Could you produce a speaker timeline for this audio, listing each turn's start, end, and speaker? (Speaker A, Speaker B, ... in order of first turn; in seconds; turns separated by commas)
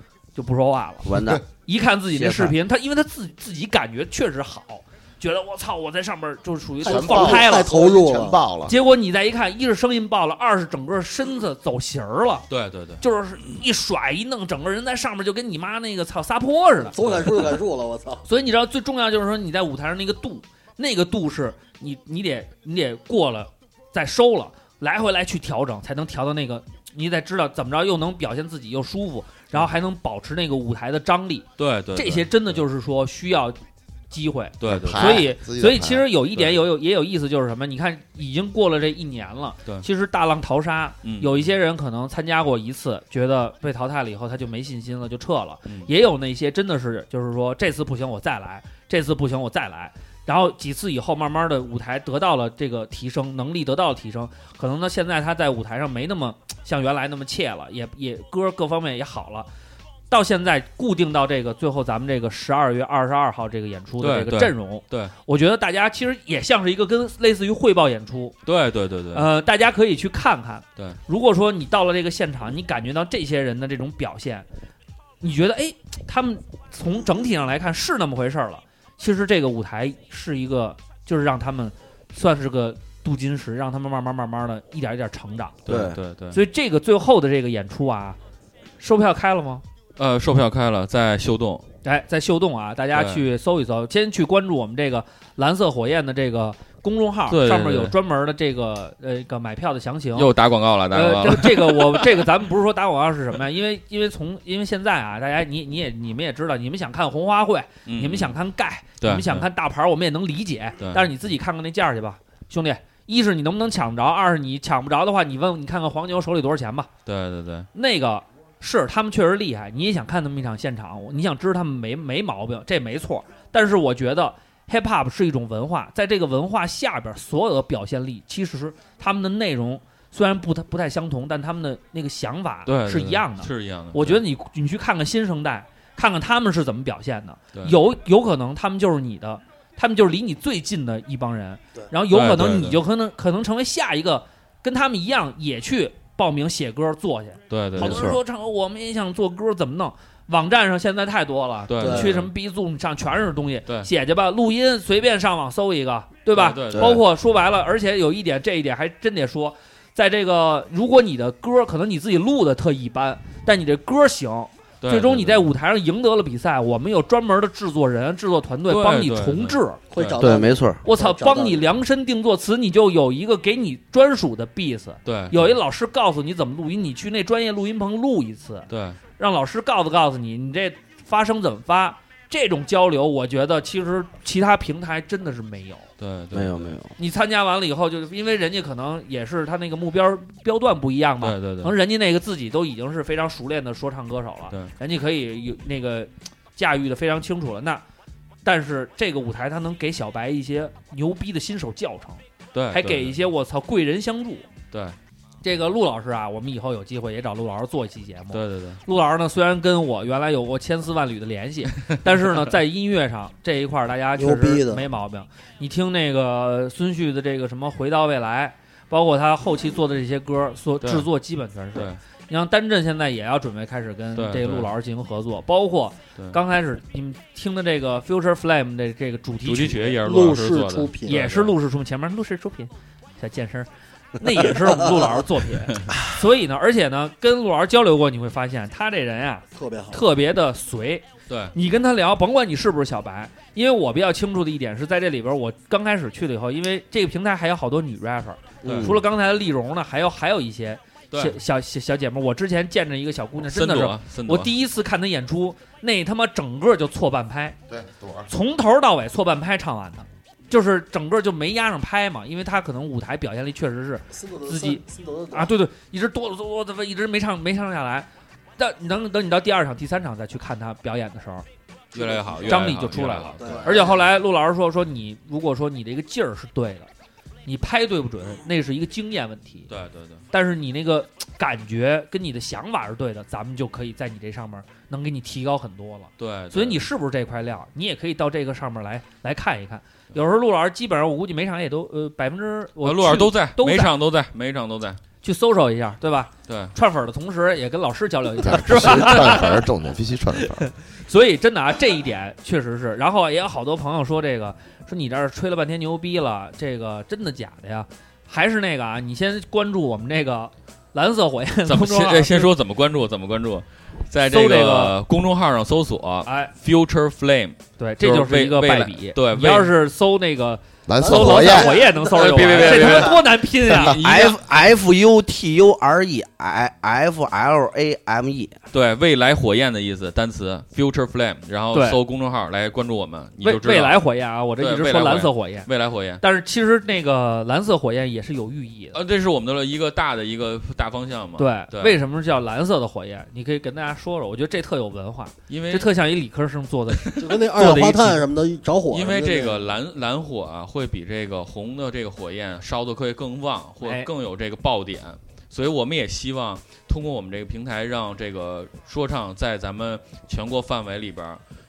Speaker A: 0.3-1.1, Speaker B: 1.0-1.4, Speaker A: 1.7-7.8, Speaker B: 2.1-2.6, Speaker C: 6.8-8.4, Speaker D: 6.8-8.7, Speaker A: 8.7-12.5, Speaker E: 12.5-13.0, Speaker A: 13.0-17.0, Speaker C: 16.9-18.2, Speaker A: 18.3-33.6, Speaker E: 31.6-32.3, Speaker A: 34.1-59.5, Speaker E: 34.6-35.3, Speaker D: 34.7-36.1, Speaker E: 36.4-36.6, Speaker E: 41.0-41.5, Speaker A: 60.1-68.4, Speaker E: 64.0-65.1, Speaker E: 68.5-69.3, Speaker A: 69.1-74.5, Speaker A: 75.2-85.6, Speaker E: 85.7-86.4, Speaker B: 85.7-86.0, Speaker A: 86.3-88.2, Speaker A: 88.8-89.6, Speaker E: 90.0-91.7, Speaker A: 91.8-100.3, Speaker E: 92.9-93.2, Speaker E: 97.3-98.0, Speaker E: 100.2-102.2, Speaker A: 100.9-116.9, Speaker E: 107.9-108.4, Speaker E: 109.0-109.5, Speaker E: 110.8-111.1, Speaker E: 117.1-117.7, Speaker A: 117.7-169.8, Speaker E: 132.7-134.2, Speaker E: 142.1-142.8, Speaker E: 147.5-148.1, Speaker B: 147.8-148.2, Speaker E: 151.7-152.3, Speaker C: 151.8-152.1, Speaker E: 156.3-157.0, Speaker B: 156.7-157.0, Speaker E: 164.8-165.5, Speaker E: 168.7-170.2, Speaker C: 169.9-171.7, Speaker B: 170.2-170.8, Speaker A: 170.8-185.9, Speaker E: 175.1-175.6, Speaker E: 178.7-179.0, Speaker E: 186.0-186.8, Speaker B: 186.3-186.9, Speaker A: 187.0-197.8, Speaker E: 191.2-191.7, Speaker A: 198.4-204.5, Speaker E: 202.5-203.2, Speaker A: 205.4-230.0, Speaker E: 208.3-208.8, Speaker C: 214.2-214.8, Speaker E: 220.8-221.1, Speaker E: 224.2-224.7, Speaker E: 229.4-231.5, Speaker C: 230.0-231.1, Speaker A: 231.1-257.6, Speaker C: 234.8-235.0, Speaker C: 239.6-240.0, Speaker E: 241.3-241.5, Speaker E: 248.6-249.0, Speaker B: 248.6-249.0, Speaker E: 251.1-251.4, Speaker E: 253.4-254.5, Speaker D: 257.7-258.3, Speaker A: 258.3-271.5, Speaker C: 264.1-265.5, Speaker E: 271.9-273.6, Speaker C: 271.9-272.4, Speaker A: 272.4-276.9, Speaker C: 273.4-273.9, Speaker D: 273.4-273.8, Speaker A: 277.5-279.7, Speaker E: 279.7-280.2, Speaker A: 280.3-293.9, Speaker E: 286.2-286.8, Speaker E: 292.8-295.0, Speaker A: 295.2-299.6, Speaker E: 296.5-296.8, Speaker D: 298.4-300.7, Speaker A: 301.1-312.5, Speaker E: 311.7-319.7, Speaker A: 314.2-315.0, Speaker A: 316.2-316.5, Speaker A: 317.8-324.0, Speaker D: 320.9-321.8, Speaker C: 321.1-322.0, Speaker E: 322.0-324.4, Speaker C: 322.6-323.1, Speaker B: 324.0-328.6, Speaker E: 328.7-334.0, Speaker A: 331.7-332.0, Speaker A: 333.4-335.7, Speaker E: 334.6-336.2, Speaker A: 336.2-339.0, Speaker E: 338.9-342.0, Speaker A: 341.4-348.2, Speaker E: 345.5-345.9, Speaker E: 347.0-347.2, Speaker C: 347.2-349.7, Speaker E: 348.9-361.4, Speaker A: 353.8-354.1